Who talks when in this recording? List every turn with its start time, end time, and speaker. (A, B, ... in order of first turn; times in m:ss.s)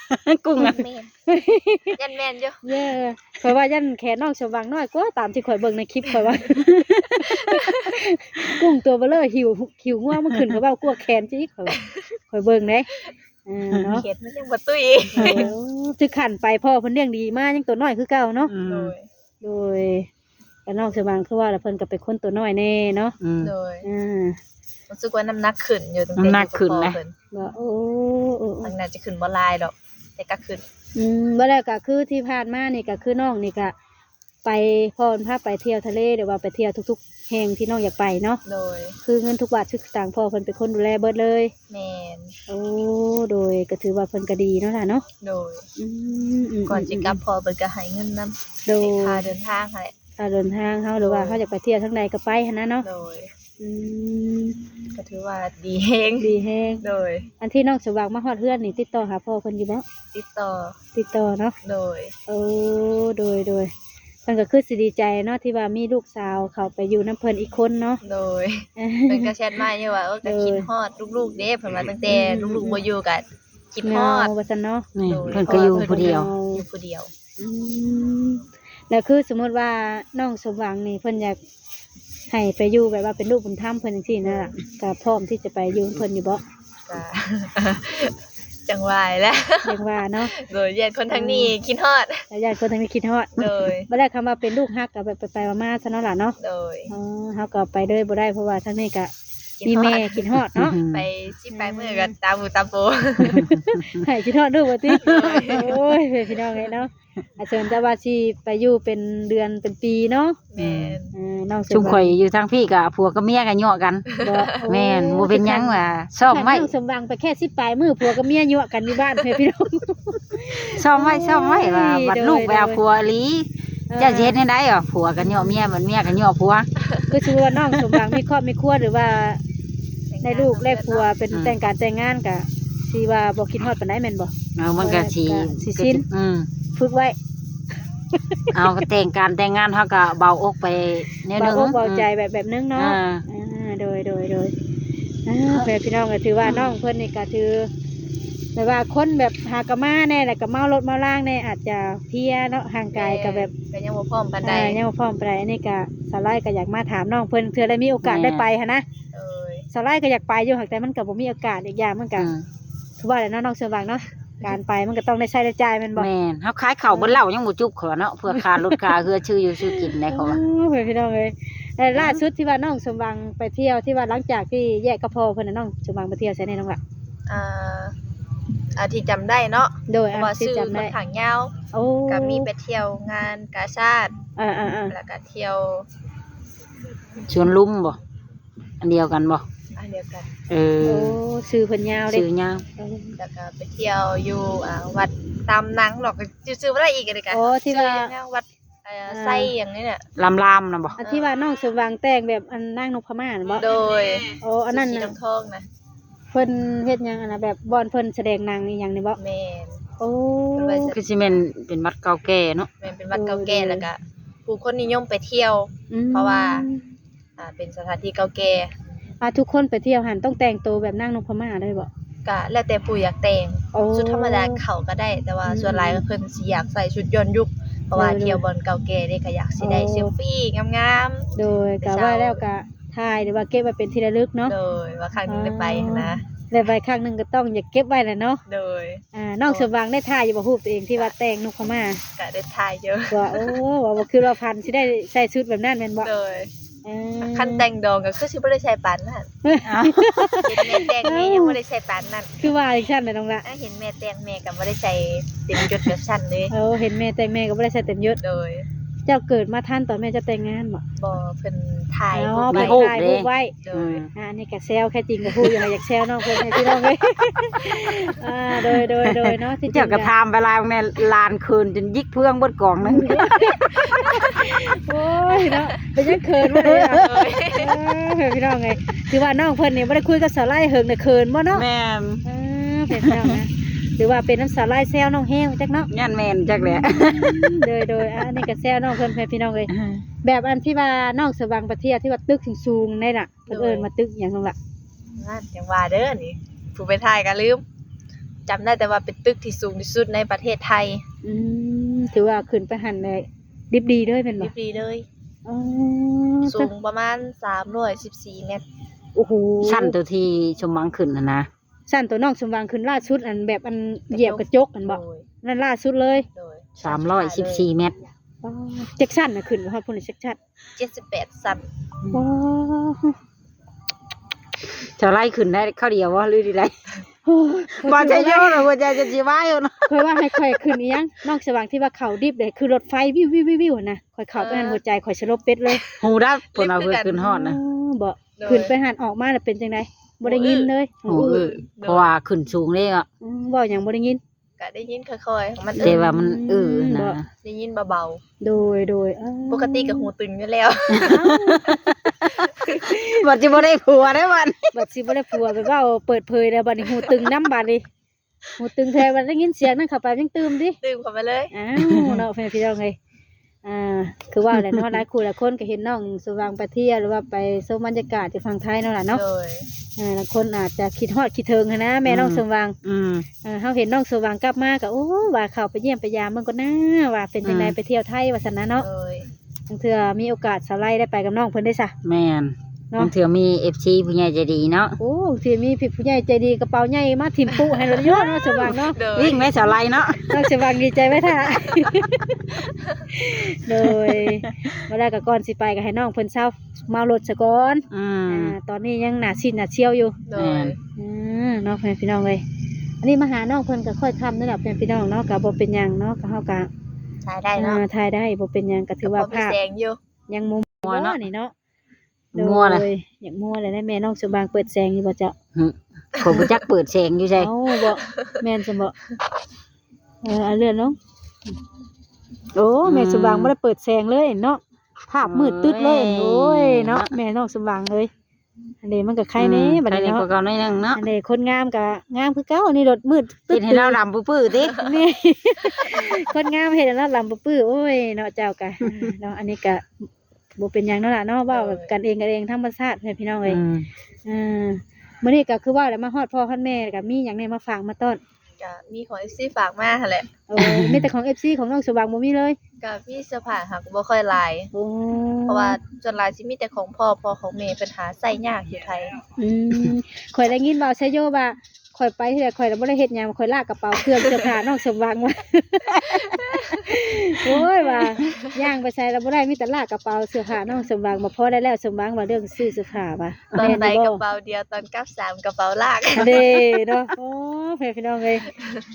0:00.1-0:00.8 A
0:00.6-0:01.1 B
0:01.3-0:02.0 C
0:02.0-0:02.6 B
0:02.6-0:11.8 C
0:07.5-0:07.9 B
0:10.2-0:10.6 A
0:12.3-0:12.9 C
0:13.5-0:14.0 C
0:14.0-0:15.5 B
0:15.1-0:18.5 C
0:15.2-0:15.5 A
0:18.5-0:18.9 A
0:18.6-0:19.1 B
0:19.4-0:20.1 C
0:20.7-0:23.2 C
0:23.2-0:23.5 A
0:23.4-0:23.9 B
0:23.8-0:24.4 C
0:24.9-0:27.1 B
0:26.2-0:27.0 A
0:27.3-0:28.8 C
0:28.6-0:30.6 B
0:31.0-0:33.8 C
0:34.4-0:38.4 C
0:38.5-0:39.0 B
0:39.0-0:41.5 C
0:41.7-0:42.3 B
0:42.5-0:45.0 C
0:45.2-0:45.6 B
0:45.8-0:47.2 C
0:46.7-0:49.9 B
0:48.7-0:49.2 C
0:50.2-0:52.9 C
0:51.0-0:51.4 B
0:52.8-0:53.3 B
0:53.6-0:54.6 C
0:54.9-0:56.3 B
0:56.2-0:56.8 C
0:56.8-0:57.3 B
0:57.4-0:59.8 C
1:00.1-1:00.8 B
1:00.9-1:01.6 C
1:01.6-1:02.1 B
1:02.3-1:03.7 C
1:04.3-1:08.0 C
1:08.0-1:14.3 B
1:08.8-1:09.3 C
1:10.2-1:10.7 C
1:12.1-1:12.8 C
1:13.8-1:16.6 C
1:15.0-1:16.3 A
1:15.0-1:17.1 B
1:17.4-1:21.4 C
1:22.3-1:26.4 C
1:24.2-1:24.5 B
1:26.9-1:28.2 B
1:28.7-1:32.2 B
1:29.6-1:30.3 C
1:31.1-1:31.5 C
1:32.3-1:36.4 C
1:33.4-1:33.9 B
1:36.4-1:36.9 B
1:36.9-1:39.1 C
1:39.6-1:40.3 B
1:39.6-1:40.8 C
1:40.5-1:41.1 A
1:40.9-1:43.5 B
1:41.5-1:42.1 C
1:43.4-1:44.0 A
1:43.4-1:50.4 C
1:45.0-1:45.8 B
1:50.5-1:51.1 B
1:50.6-1:51.0 A
1:51.1-1:52.2 C
1:51.7-1:54.1 A
1:54.2-2:02.8 C
1:54.2-1:54.6 B
1:54.7-1:56.7 A
2:00.7-2:06.7 A
2:03.9-2:04.4 C
2:05.2-2:05.7 C
2:06.8-2:07.1 B
2:07.1-2:09.4 C
2:07.7-2:08.1 A
2:10.1-2:11.1 B
2:10.2-2:16.0 C
2:14.6-2:16.5 A
2:16.7-2:17.2 C
2:18.3-2:18.8 C
2:18.5-2:22.1 A
2:21.4-2:24.5 C
2:22.8-2:23.2 A
2:25.3-2:27.7 C
2:28.6-2:33.5 C
2:32.9-2:34.8 B
2:34.4-2:38.8 C
2:38.0-2:38.5 A
2:39.1-2:39.7 B
2:39.7-2:42.3 C
2:42.2-2:42.5 A
2:43.0-2:46.1 C
2:46.0-2:50.4 A
2:46.9-2:47.2 C
2:48.3-2:48.9 C
2:49.6-2:56.8 C
2:52.0-2:52.2 A
2:57.3-2:58.0 B
2:58.8-3:01.6 B
2:59.9-3:00.9 C
3:01.7-3:02.5 C
3:02.1-3:04.2 B
3:04.4-3:05.0 C
3:04.9-3:05.9 B
3:07.3-3:08.0 A
3:08.8-3:09.4 A
3:09.8-3:10.3 B
3:10.5-3:11.2 A
3:10.8-3:12.3 C
3:12.1-3:12.6 A
3:12.8-3:13.2 C
3:13.2-3:20.0 B
3:17.3-3:18.1 C
3:19.1-3:19.5 C
3:20.2-3:21.0 A
3:21.0-3:23.7 C
3:21.0-3:21.4 B
3:23.6-3:25.6 B
3:24.4-3:25.2 C
3:26.3-3:29.2 C
3:29.2-3:29.8 B
3:30.0-3:31.0 C
3:30.6-3:31.0 B
3:30.9-3:32.7 A
3:32.8-3:36.7 B
3:33.1-3:33.9 C
3:35.9-3:36.8 C
3:37.4-3:38.7 B
3:39.2-3:41.9 C
3:42.2-3:52.4 B
3:43.7-3:44.6 C
3:45.4-3:46.0 C
3:48.0-3:48.4 C
3:49.6-3:50.1 C
3:51.4-3:54.6 C
3:54.4-3:56.2 B
3:55.3-3:58.4 C
3:58.5-3:59.7 B
3:59.1-4:02.0 C
4:02.2-4:03.6 B
4:03.1-4:06.1 C
4:06.0-4:06.5 B
4:06.8-4:07.7 C
4:07.2-4:09.3 B
4:09.4-4:11.6 C
4:09.6-4:10.4 A
4:10.4-4:12.4 B
4:12.4-4:13.4 C
4:13.4-4:16.5 B
4:16.5-4:18.2 C
4:18.2-4:18.7 B
4:19.1-4:20.8 C
4:21.0-4:22.9 B
4:22.1-4:23.6 C
4:22.5-4:24.1 A
4:23.6-4:24.0 B
4:24.1-4:30.1 C
4:28.6-4:33.3 A
4:32.8-4:41.6 C
4:33.9-4:34.4 B
4:36.4-4:37.3 A
4:36.9-4:37.8 B
4:41.5-4:42.2 A
4:42.2-4:45.9 C
4:43.0-4:43.4 A
4:45.9-4:47.6 A
4:46.6-4:49.7 C
4:49.7-4:50.0 A
4:50.2-4:54.6 C
4:53.5-4:53.9 B
4:55.2-4:57.6 B
4:58.5-5:01.0 B
5:01.2-5:04.5 C
5:04.4-5:05.1 B
5:05.4-5:06.7 C
5:06.4-5:08.6 B
5:09.2-5:10.0 C
5:09.6-5:11.5 A
5:11.9-5:16.3 C
5:14.1-5:15.3 B
5:16.3-5:17.7 B
5:16.8-5:17.9 A
5:18.4-5:20.4 C
5:20.8-5:21.7 B
5:22.1-5:23.2 C
5:25.0-5:26.8 A
5:27.3-5:28.7 C
5:27.8-5:30.7 A
5:29.9-5:35.8 C
5:34.4-5:34.8 B
5:35.7-5:37.2 B
5:36.0-5:37.6 A
5:37.2-5:41.5 C
5:38.4-5:38.7 B
5:40.2-5:42.1 B
5:41.1-5:43.1 A
5:43.2-5:44.2 C
5:44.6-5:46.0 B
5:45.8-5:47.2 C
5:45.8-5:47.3 A
5:47.4-5:48.2 B
5:48.4-5:50.1 C
5:49.5-5:51.2 B
5:50.9-5:51.9 A
5:51.0-5:51.9 C
5:52.6-5:53.0 B
5:53.1-5:54.8 A
5:54.7-5:57.8 C
5:58.6-6:00.8 C
6:00.8-6:01.5 B
6:01.5-6:03.0 C
6:01.8-6:02.2 A
6:03.6-6:09.2 C
6:04.5-6:05.0 A
6:09.1-6:09.7 B
6:10.0-6:12.8 C
6:12.0-6:13.3 A
6:13.4-6:18.9 C
6:17.4-6:17.8 A
6:18.8-6:19.3 B
6:19.7-6:22.0 C
6:22.0-6:25.0 A
6:25.0-6:29.0 C
6:27.5-6:29.5 B
6:29.2-6:30.2 A
6:30.2-6:32.4 C
6:33.1-6:40.2 C
6:33.9-6:34.5 A
6:37.9-6:38.5 A
6:40.3-6:40.8 B
6:40.4-6:40.8 A
6:41.0-6:42.4 C
6:43.0-6:46.7 C
6:47.2-6:47.8 B
6:47.6-6:49.6 C
6:49.0-6:50.0 B
6:50.3-6:51.5 C
6:50.8-6:51.2 A
6:52.3-6:52.9 A
6:52.3-6:55.4 C
6:55.6-6:57.5 A
6:56.2-6:56.5 B
6:57.4-6:59.0 C
7:00.2-7:01.0 C
7:02.5-7:08.1 C
7:02.8-7:03.5 A
7:05.2-7:07.1 A
7:08.8-7:10.3 C
7:09.4-7:11.0 A
7:10.9-7:14.0 C
7:13.5-7:14.7 A
7:14.8-7:19.9 C
7:18.9-7:19.1 A
7:20.6-7:23.6 C
7:21.5-7:21.9 B
7:23.4-7:23.9 A
7:24.2-7:28.2 C
7:28.6-7:30.3 B
7:30.5-7:32.6 C
7:30.6-7:31.1 A
7:32.8-7:34.7 B
7:34.7-7:35.8 C
7:35.5-7:39.2 B
7:39.4-7:54.2 C
7:44.0-7:44.5 B
7:46.0-7:48.3 B
7:53.5-7:53.8 A
7:53.5-7:56.4 B
7:56.2-7:58.5 C